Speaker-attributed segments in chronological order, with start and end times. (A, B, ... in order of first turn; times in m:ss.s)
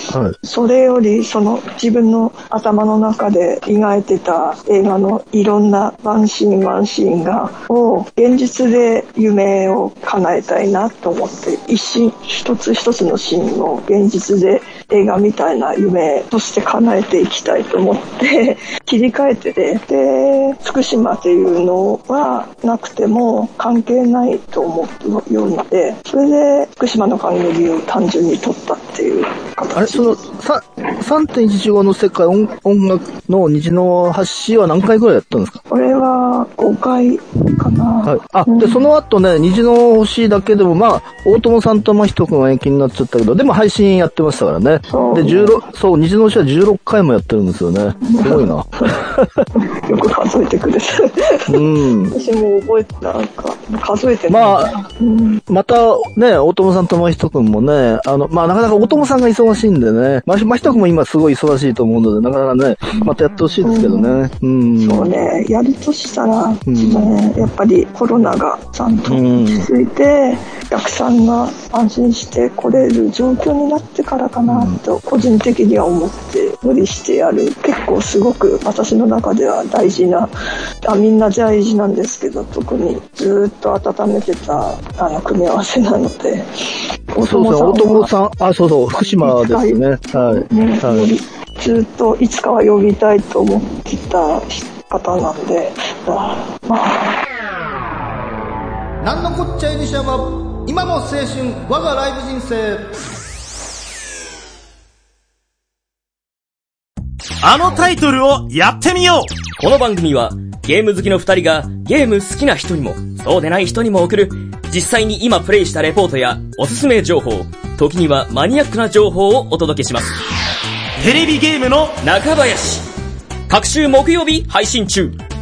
0:00.4-0:30.2 A
0:29.8-0:35.6 B
0:35.7-0:38.8 A
0:38.0-0:49.4 B
0:44.9-0:45.6 A
0:48.0-0:49.0 A
0:49.6-0:55.4 A
0:51.5-0:52.1 B
0:54.3-0:54.7 B
0:55.5-1:05.1 B
1:03.6-1:04.2 A
1:04.8-1:20.3 A
1:06.7-1:07.1 B
1:09.1-1:09.7 B
1:14.4-1:14.8 B
1:20.8-1:26.5 A
1:27.1-1:28.1 A
1:27.2-1:31.1 B
1:28.9-1:37.2 A
1:39.0-1:42.9 B
1:47.4-1:49.3 C
1:49.6-2:00.2 D
2:01.0-2:02.0 C
2:02.0-2:02.8 D
2:03.5-2:05.2 D